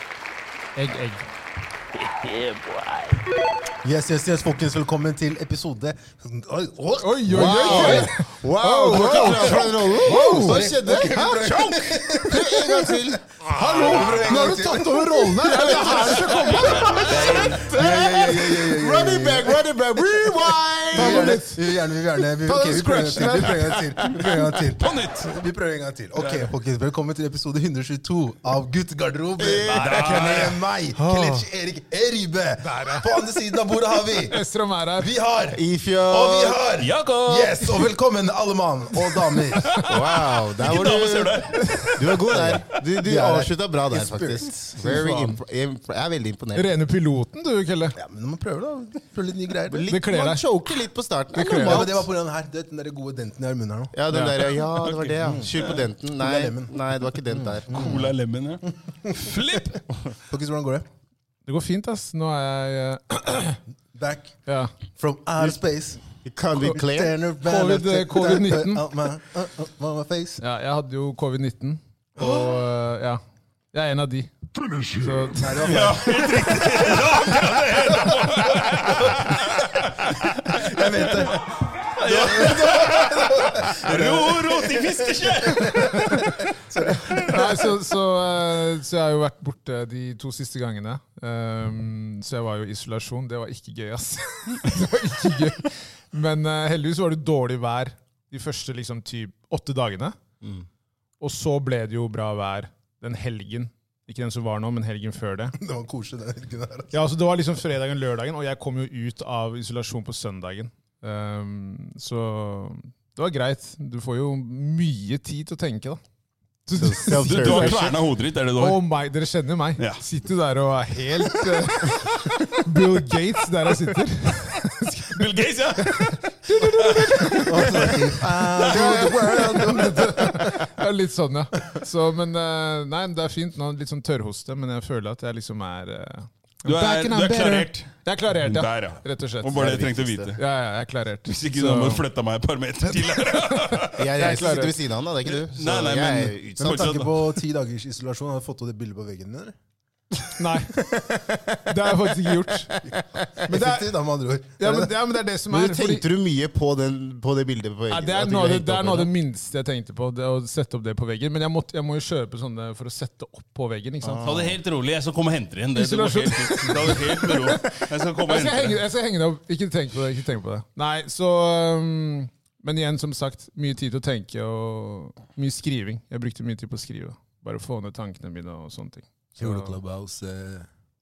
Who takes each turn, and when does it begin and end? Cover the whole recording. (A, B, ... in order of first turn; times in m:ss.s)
0:00.8-0:01.2 A
0:02.0-0:03.2 B
0:03.8-0:08.1 C
0:07.0-0:10.6 A
0:07.3-0:13.2 D
0:09.2-0:20.4 C
0:11.2-0:12.0 B
0:13.4-0:17.4 A
0:15.4-0:21.4 D
0:20.9-0:34.4 C
0:20.9-0:21.6 A
0:22.4-0:24.7 D
0:24.8-0:25.3 B
0:26.2-0:26.5 B
0:29.4-0:31.4 D
0:29.7-0:30.6 B
0:32.6-0:33.1 A
0:34.1-0:35.1 A
0:35.0-0:35.6 C
0:35.5-0:36.6 D
0:36.1-0:37.9 B
0:36.3-0:39.8 C
0:39.3-0:42.2 B
0:39.8-0:46.7 D
0:42.3-0:45.4 C
0:46.5-0:48.0 A
0:48.0-0:49.9 C
0:49.7-0:52.1 D
0:49.9-0:50.4 A
0:51.3-0:52.0 A
0:51.6-0:54.3 C
0:53.9-0:58.0 D
0:54.1-0:54.4 A
0:54.7-0:55.8 B
0:55.2-0:58.1 C
0:57.7-0:59.8 B
0:59.0-0:59.8 C
1:00.3-1:00.8 C
1:01.4-1:03.6 A
1:03.9-1:04.4 C
1:04.4-1:04.7 A
1:04.9-1:06.0 C
1:06.2-1:07.1 D
1:06.5-1:10.4 C
1:07.4-1:08.8 A
1:10.4-1:13.2 A
1:12.2-1:12.5 C
1:13.7-1:15.7 A
1:15.3-1:19.4 C
1:15.6-1:26.4 B
1:20.4-1:21.4 C
1:22.0-1:27.7 C
1:27.2-1:40.2 A
1:41.2-1:45.6 A
1:45.5-1:46.9 C
1:46.9-1:56.0 A
1:56.7-1:58.0 A
1:56.8-1:57.9 D
1:57.0-1:58.8 B
1:58.6-2:05.2 A
2:05.1-2:09.1 B
2:05.8-2:08.0 A
2:07.4-2:10.7 C
2:08.7-2:09.6 D
2:09.4-2:22.0 A
2:16.6-2:20.4 B
2:19.6-2:19.8 D
2:21.3-2:24.1 B
2:23.7-2:24.8 A
2:23.9-2:27.0 D
2:25.2-2:27.2 B
2:26.6-2:29.5 C
2:30.4-2:30.8 A
2:31.0-2:31.6 D
2:31.6-2:32.7 A
2:32.8-2:33.2 D
2:33.4-2:34.9 C
2:33.5-2:33.9 A
2:34.6-2:36.0 A
2:35.5-2:39.1 D
2:37.9-2:44.3 A
2:44.0-2:44.6 D
2:44.2-2:48.8 B
2:45.7-2:47.6 A
2:48.2-2:59.8 A
2:59.4-3:00.7 C